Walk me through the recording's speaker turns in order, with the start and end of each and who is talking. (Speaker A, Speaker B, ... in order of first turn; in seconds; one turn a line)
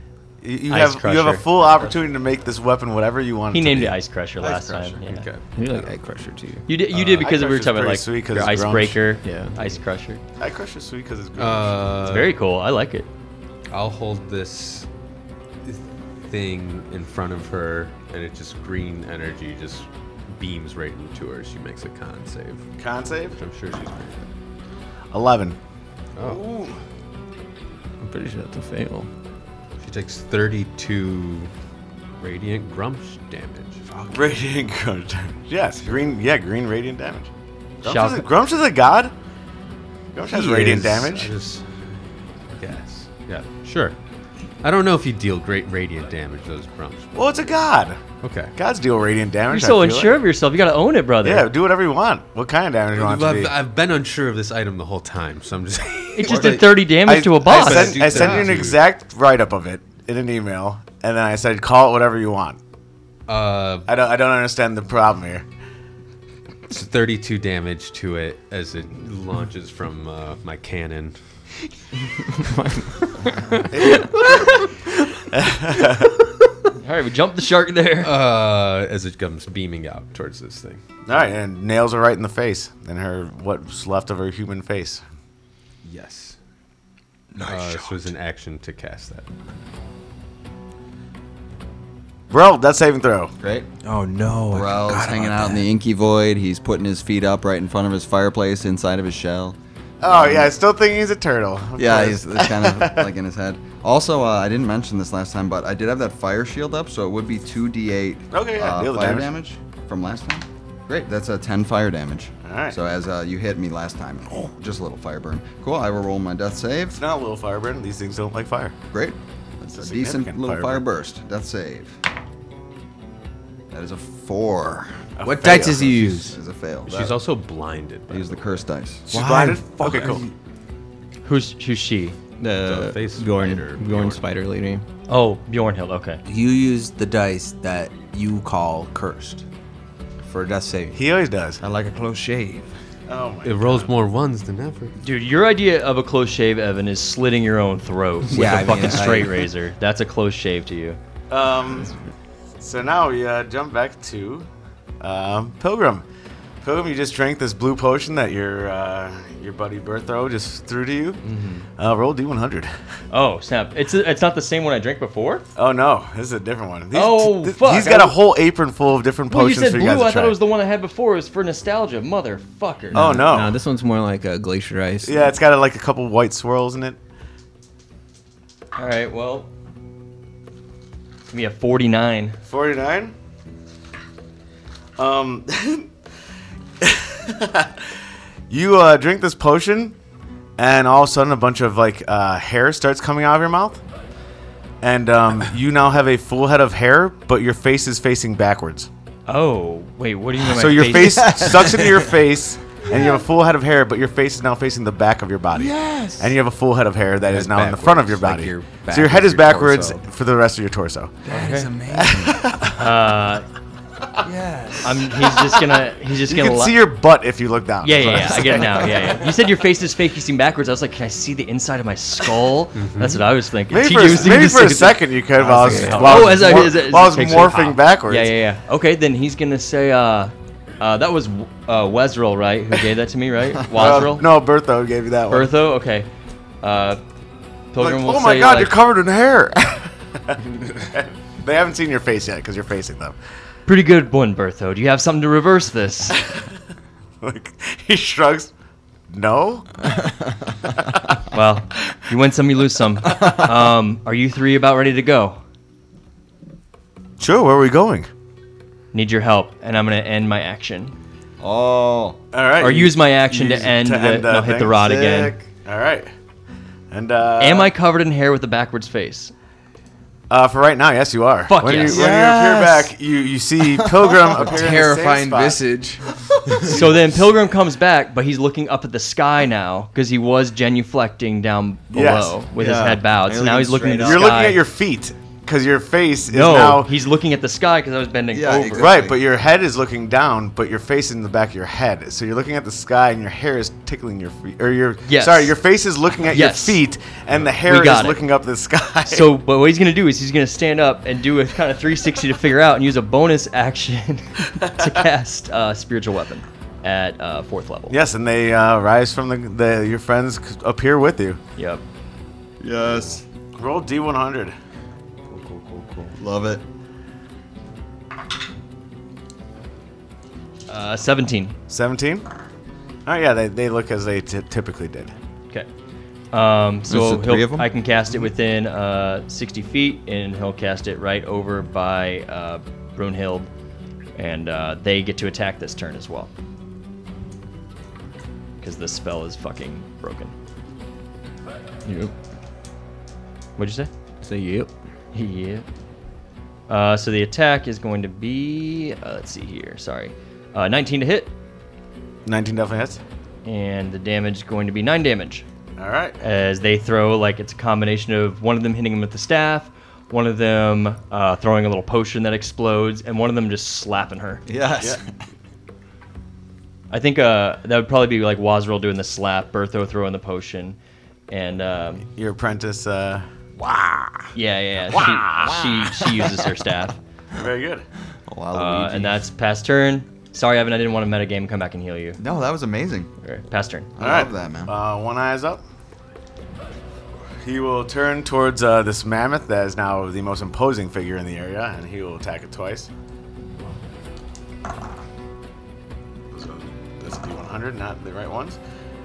Speaker A: 0.4-4.0
Speaker B: 0.7-1.4
Speaker B: 3.5-5.3
Speaker C: 4.4-5.0
Speaker D: 5.0-5.4
Speaker E: 5.5-6.7
Speaker B: 6.7-10.2
Speaker A: 6.9-9.1
Speaker E: 9.2-9.6
Speaker A: 10.4-11.8
Speaker D: 11.4-12.3
Speaker B: 12.0-13.1
Speaker D: 13.7-14.9
Speaker D: 15.6-22.7
Speaker A: 22.8-23.4
Speaker D: 23.4-24.2
Speaker A: 25.1-25.6
Speaker D: 26.2-26.4
Speaker A: 26.3-26.7
Speaker E: 28.0-29.1
Speaker D: 29.8-31.5
Speaker D: 32.2-33.9
Speaker F: 33.9-34.2
Speaker A: 34.1-37.3
Speaker A: 37.8-39.1
Speaker B: 37.8-38.3
Speaker A: 40.1-41.3
Speaker D: 40.3-41.9
Speaker D: 42.6-44.0
Speaker D: 44.6-47.1
Speaker A: 47.1-48.0
Speaker D: 48.2-48.5
Speaker A: 48.6-50.2
Speaker B: 49.5-51.5
Speaker A: 51.2-53.5
Speaker D: 53.0-56.7
Speaker B: 56.1-58.1
Speaker A: 57.0-62.6
Speaker D: 57.5-58.8
Speaker D: 63.3-63.9
Speaker A: 63.9-65.5
Speaker D: 66.7-71.2
Speaker E: 72.4-74.0
Speaker A: 75.3-76.2
Speaker B: 76.8-78.1
Speaker D: 78.0-80.8
Speaker A: 81.1-85.0
Speaker D: 85.8-86.4
Speaker F: 87.3-88.1
Speaker D: 87.4-89.3
Speaker A: 92.3-93.3
Speaker C: 93.4-93.7
Speaker F: 93.8-95.7
Speaker C: 94.5-100.5
Speaker A: 100.0-103.1
Speaker C: 101.8-117.0
Speaker A: 108.3-109.3
Speaker A: 112.4-112.8
Speaker A: 117.0-118.8
Speaker C: 118.9-122.0
Speaker A: 119.7-120.9
Speaker C: 123.7-127.2
Speaker A: 125.2-126.0
Speaker F: 125.2-126.4
Speaker D: 126.9-128.6
Speaker C: 128.1-129.1
Speaker A: 129.1-130.2
Speaker F: 129.1-130.3
Speaker B: 131.2-132.2
Speaker E: 132.4-134.8
Speaker D: 132.6-134.2
Speaker B: 135.1-136.2
Speaker F: 136.3-139.4
Speaker F: 140.2-141.0
Speaker A: 140.9-141.6
Speaker F: 141.6-142.7
Speaker A: 143.1-143.9
Speaker D: 143.4-144.9
Speaker B: 145.0-151.0
Speaker F: 148.3-149.4
Speaker A: 151.3-151.9
Speaker A: 152.6-154.5
Speaker A: 155.0-156.1
Speaker A: 156.6-161.2
Speaker B: 161.2-161.6
Speaker A: 161.8-162.7
Speaker B: 163.1-165.4
Speaker A: 165.6-170.4
Speaker B: 166.9-168.2
Speaker B: 169.3-173.2
Speaker A: 172.9-173.6
Speaker E: 172.9-175.3
Speaker A: 175.1-177.0
Speaker B: 178.8-179.5
Speaker B: 181.3-182.4
Speaker A: 182.5-183.1
Speaker A: 185.0-185.9
Speaker A: 186.8-187.9
Speaker A: 188.5-189.9
Speaker A: 190.6-193.8
Speaker A: 194.8-198.9
Speaker B: 199.3-201.7
Speaker A: 200.5-211.2
Speaker F: 205.5-206.3
Speaker F: 207.2-210.0
Speaker F: 211.3-212.5
Speaker B: 211.3-211.7
Speaker A: 211.9-212.8
Speaker B: 212.7-213.4
Speaker F: 214.2-215.1
Speaker B: 214.8-216.8
Speaker A: 216.3-219.2
Speaker B: 217.8-234.3
Speaker D: 222.8-223.3
Speaker A: 223.7-228.3
Speaker E: 225.4-226.6
Speaker A: 233.7-235.5
Speaker B: 235.3-236.1
Speaker B: 236.6-237.0
Speaker B: 237.7-238.7
Speaker A: 237.8-243.2
Speaker B: 243.7-246.2
Speaker A: 247.2-248.5
Speaker A: 249.1-249.7
Speaker B: 251.3-255.4
Speaker A: 257.2-258.1
Speaker B: 258.9-260.9
Speaker C: 261.4-262.2
Speaker A: 262.3-265.0
Speaker B: 262.6-265.4
Speaker C: 264.8-265.4
Speaker A: 265.6-266.1
Speaker A: 266.9-267.7
Speaker B: 267.4-269.3
Speaker A: 270.3-275.6
Speaker B: 271.5-272.0
Speaker F: 271.9-272.9
Speaker F: 274.4-276.0
Speaker B: 276.7-284.6
Speaker A: 281.9-282.4
Speaker C: 282.6-284.4
Speaker A: 283.9-286.9
Speaker B: 286.3-289.0
Speaker C: 288.3-289.2
Speaker A: 288.8-299.3
Speaker B: 295.0-295.6
Speaker B: 296.3-296.8
Speaker B: 297.6-298.2
Speaker B: 299.1-308.0
Speaker A: 304.6-304.9
Speaker A: 307.9-311.4
Speaker B: 311.6-311.8
Speaker C: 312.6-313.2
Speaker A: 313.6-314.6
Speaker C: 315.3-316.6
Speaker B: 320.7-321.6
Speaker A: 321.7-322.3
Speaker A: 323.1-325.1
Speaker B: 326.3-333.5
Speaker C: 326.9-327.7
Speaker B: 334.1-336.3
Speaker B: 338.6-340.4
Speaker E: 341.9-342.1
Speaker B: 343.6-343.9
Speaker E: 344.2-344.7
Speaker B: 345.1-345.7
Speaker B: 346.7-351.3
Speaker A: 352.3-353.0
Speaker B: 353.4-355.4
Speaker A: 355.8-356.2
Speaker B: 356.2-364.4
Speaker C: 364.4-365.1
Speaker B: 366.9-370.8
Speaker B: 371.3-372.1
Speaker A: 372.1-373.3
Speaker C: 373.6-374.3
Speaker B: 374.3-377.0
Speaker C: 374.9-376.3
Speaker A: 375.1-375.6
Speaker A: 377.4-377.9
Speaker C: 378.3-379.2
Speaker B: 378.5-382.2
Speaker C: 382.2-383.1
Speaker B: 383.2-383.9
Speaker C: 384.0-384.7
Speaker A: 384.0-385.6
Speaker A: 387.4-392.9
Speaker A: 396.3-398.6